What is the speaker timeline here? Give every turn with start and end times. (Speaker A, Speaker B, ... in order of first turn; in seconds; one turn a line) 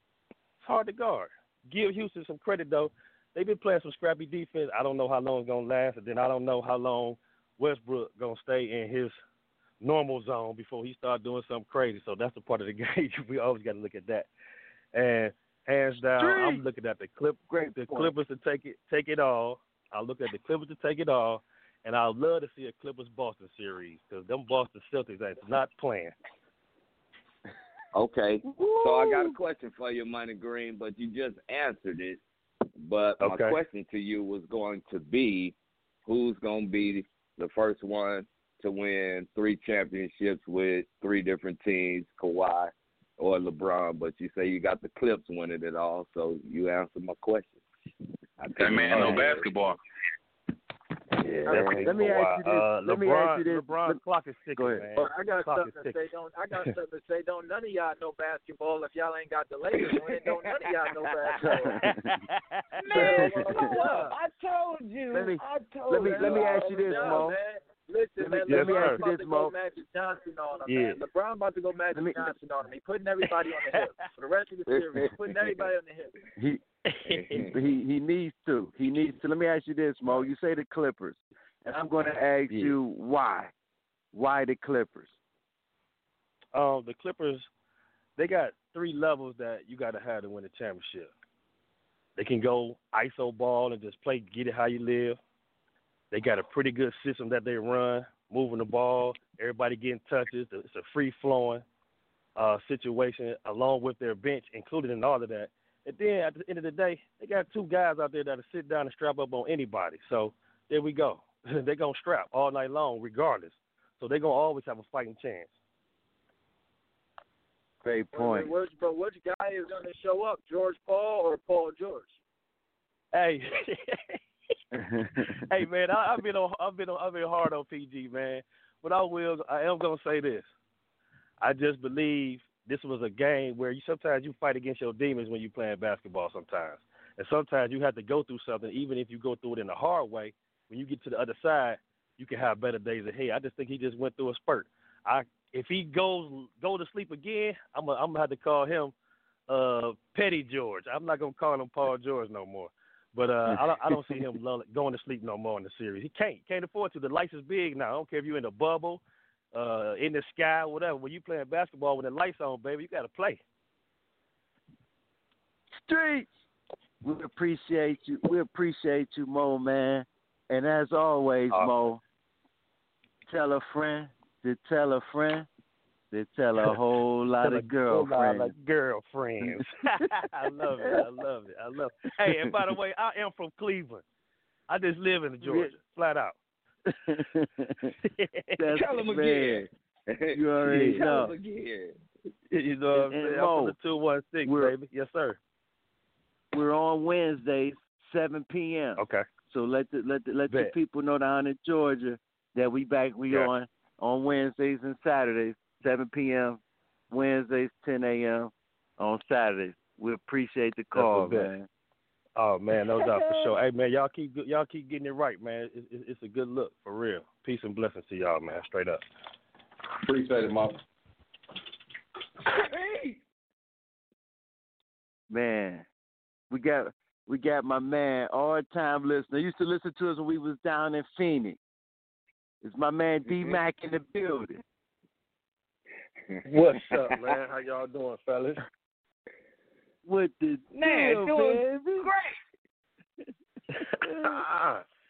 Speaker A: 0.6-9.2
Speaker A: 9.8-14.3
Speaker A: 14.9-26.1
Speaker B: 16.2-16.6
Speaker B: 17.5-18.1
Speaker C: 27.9-32.2
Speaker B: 28.5-29.3
Speaker C: 32.8-47.6
Speaker A: 33.2-33.6
Speaker C: 48.4-49.5
Speaker D: 48.6-49.8
Speaker A: 49.0-49.2
Speaker C: 51.2-52.0
Speaker A: 51.4-56.0
Speaker B: 51.8-54.0
Speaker B: 54.5-54.9
Speaker E: 54.9-61.8
Speaker C: 59.7-61.6
Speaker B: 61.4-62.1
Speaker A: 61.8-62.4
Speaker C: 62.8-67.3
Speaker E: 62.9-64.1
Speaker A: 62.9-63.4
Speaker B: 63.0-63.8
Speaker B: 65.1-67.4
Speaker E: 66.0-76.1
Speaker B: 68.2-69.5
Speaker A: 68.5-69.0
Speaker A: 70.7-71.0
Speaker B: 71.9-72.3
Speaker A: 73.7-74.1
Speaker C: 74.7-75.7
Speaker A: 76.9-77.4
Speaker C: 77.0-77.6
Speaker B: 77.5-83.5
Speaker C: 82.5-82.8
Speaker B: 84.1-85.1
Speaker A: 86.5-87.5
Speaker A: 88.2-91.1
Speaker A: 92.2-95.2
Speaker A: 96.1-101.6
Speaker A: 102.3-115.5
Speaker B: 117.8-118.5
Speaker E: 118.1-122.2
Speaker A: 123.1-124.2
Speaker B: 124.7-125.4
Speaker A: 125.5-130.5
Speaker A: 131.4-148.9
Speaker A: 149.5-159.0
Speaker B: 153.5-154.2
Speaker A: 159.5-163.4
Speaker B: 165.8-166.3
Speaker B: 167.0-172.0
Speaker A: 171.5-171.8
Speaker B: 173.3-175.5
Speaker B: 176.1-178.5
Speaker A: 177.4-184.0
Speaker B: 179.4-180.1
Speaker B: 182.2-182.5
Speaker A: 184.7-186.3
Speaker B: 185.4-185.7
Speaker B: 186.9-187.9
Speaker A: 188.0-188.6
Speaker B: 188.6-189.7
Speaker C: 188.7-191.9
Speaker B: 190.3-191.3
Speaker A: 192.5-195.4
Speaker B: 192.9-193.8
Speaker B: 194.4-194.8
Speaker B: 196.5-206.6
Speaker A: 199.0-199.2
Speaker A: 200.5-200.7
Speaker B: 207.1-211.7
Speaker A: 210.9-211.5
Speaker A: 212.4-219.0
Speaker C: 213.1-213.5
Speaker D: 220.0-220.8
Speaker C: 222.5-223.2
Speaker B: 225.3-225.8
Speaker B: 226.5-231.6
Speaker B: 232.6-234.6
Speaker C: 233.3-233.6
Speaker C: 236.3-237.3
Speaker F: 236.5-238.6
Speaker B: 240.0-242.1
Speaker C: 240.7-242.3